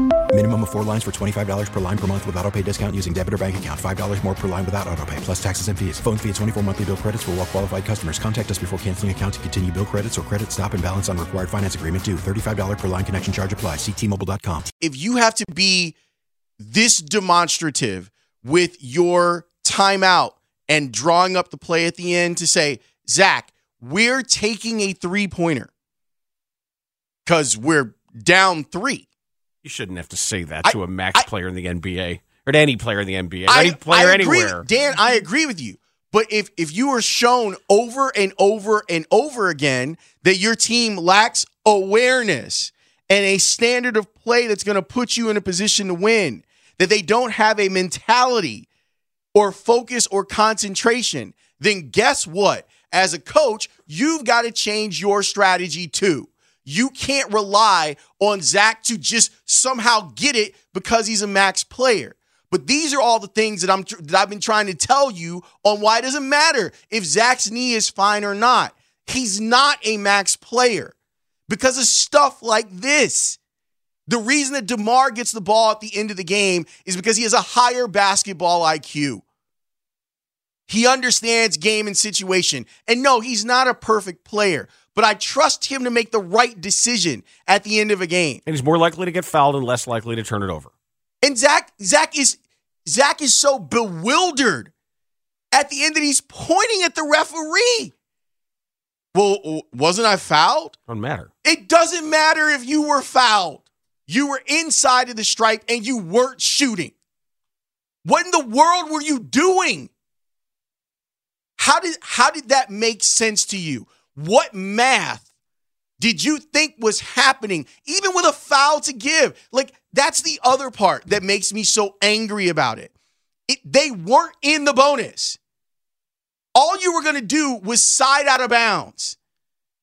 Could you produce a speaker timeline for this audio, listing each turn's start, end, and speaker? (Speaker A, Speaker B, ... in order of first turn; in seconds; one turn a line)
Speaker A: 0.3-14.7
Speaker B: 14.8-15.9
Speaker B: 16.6-25.7
Speaker B: 27.2-29.1
Speaker C: 29.6-34.6
Speaker B: 30.6-31.3
Speaker B: 33.5-48.7
Speaker B: 49.3-70.9
Speaker B: 71.5-73.4
Speaker B: 74.1-79.2
Speaker B: 80.7-88.4
Speaker C: 88.5-90.7
Speaker B: 91.2-94.7
Speaker B: 95.5-97.9
Speaker B: 99.1-100.8
Speaker C: 100.9-101.3
Speaker B: 101.4-106.9
Speaker B: 108.0-109.9
Speaker B: 111.6-115.2
Speaker B: 116.0-122.9
Speaker B: 123.5-125.4
Speaker B: 126.5-129.2